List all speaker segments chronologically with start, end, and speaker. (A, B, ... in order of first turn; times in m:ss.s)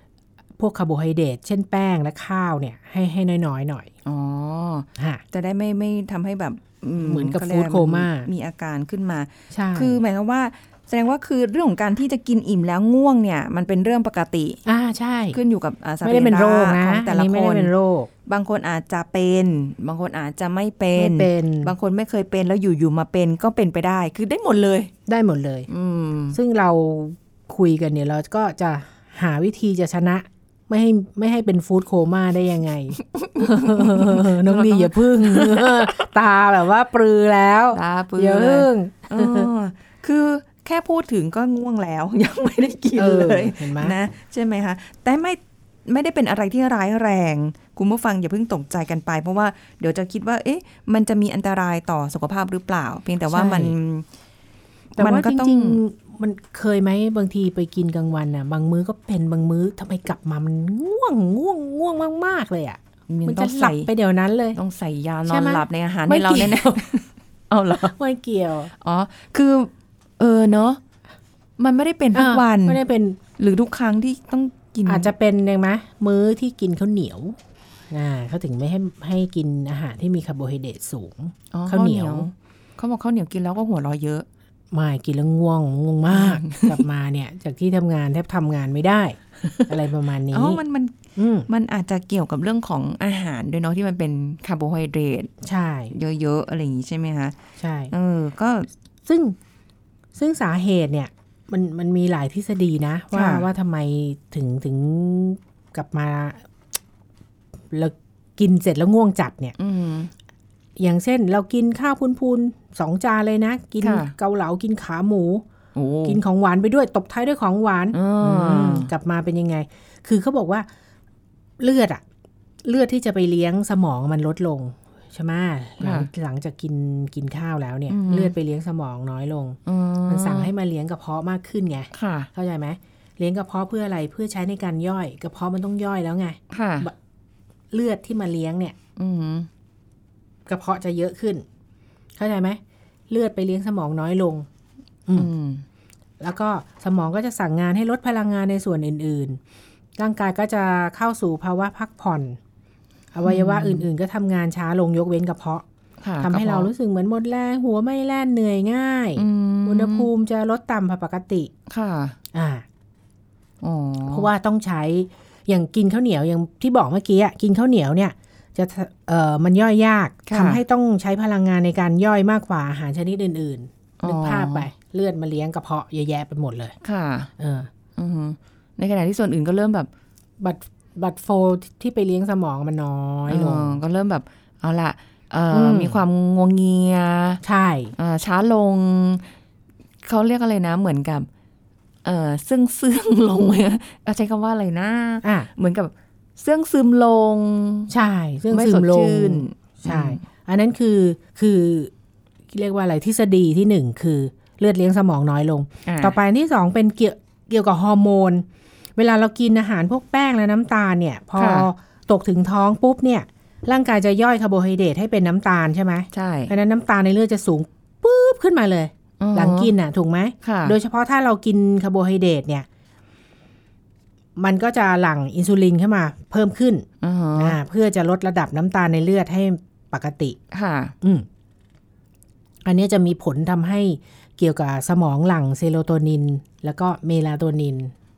0:00.6-0:03.9 A
0:04.0-0:14.6 B
0:05.0-0:05.2 A
0:07.0-0:08.3 A
0:09.5-0:10.0 A
0:14.6-0:15.4 A
0:15.3-0:17.7 B
0:16.0-0:18.1 A
0:18.3-0:24.9 B
0:21.0-0:21.7 A
0:25.1-0:25.7 A
0:25.7-0:26.4 B
0:26.3-0:39.5 A
0:33.1-0:35.9 B
0:37.7-0:54.0 B
0:43.0-0:43.9 A
0:53.3-0:53.7 A
0:54.9-0:55.8 B
0:55.0-1:04.6 A
1:03.1-1:03.9 B
1:04.5-1:07.9 B
1:05.3-1:06.8 A
1:07.8-1:08.7 A
1:08.8-1:10.8 B
1:11.6-1:12.8 B
1:12.1-1:13.2 A
1:13.4-1:15.1 B
1:14.8-1:17.4 A
1:17.9-1:22.3 A
1:21.5-1:24.2 B
1:24.7-1:30.6 A
1:26.1-1:26.8 B
1:29.4-1:29.7 B
1:30.3-1:35.3 B
1:31.2-1:31.5 A
1:35.4-1:35.9 A
1:35.9-1:37.3 B
1:37.6-1:37.9 A
1:37.9-1:38.7 B
1:39.0-1:39.4 A
1:40.1-1:46.4 A
1:43.1-1:43.5 B
1:47.7-1:49.6 A
1:49.6-1:50.1 B
1:50.8-1:55.4 A
1:53.8-1:54.1 B
1:55.7-1:56.2 B
1:56.0-2:00.7 A
1:57.9-1:58.9 B
2:01.6-2:02.0 A
2:02.6-2:16.9 A
2:05.8-2:06.1 B
2:07.9-2:08.3 B
2:09.6-2:10.5 B
2:11.9-2:12.3 B
2:16.5-2:16.9 B
2:17.7-2:18.8 A
2:19.0-2:19.5 B
2:20.4-2:21.4 A
2:22.2-2:24.5 A
2:25.1-2:25.6 B
2:26.2-2:29.4 A
2:30.0-2:32.4 A
2:33.1-2:35.6 A
2:33.2-2:33.9 B
2:36.0-2:36.7 B
2:36.2-2:41.5 A
2:39.2-2:40.1 B
2:41.7-2:42.2 B
2:42.3-2:42.6 A
2:43.6-2:44.3 B
2:44.1-2:56.7 A
2:50.3-2:50.6 B
2:54.0-2:54.7 B
2:56.8-2:57.3 B
2:57.4-2:57.7 A
2:58.0-2:59.9 B
3:00.4-3:03.8 A
3:03.3-3:07.4 B
3:05.5-3:06.0 A
3:07.4-3:07.9 A
3:08.0-3:09.3 B
3:10.0-3:11.3 B
3:12.0-3:17.9 B
3:15.2-3:15.5 A
3:17.9-3:21.9 A
3:18.5-3:20.2 B
3:22.5-3:28.4 A
3:25.8-3:26.2 B
3:29.0-3:42.6 A
3:31.4-3:31.7 B
3:36.1-3:36.5 B
3:39.2-3:39.7 B
3:40.4-3:40.8 B
3:44.4-3:50.4 A
3:47.0-3:47.6 B
3:50.5-3:50.9 B
3:51.0-3:51.3 A
3:52.6-3:57.9 A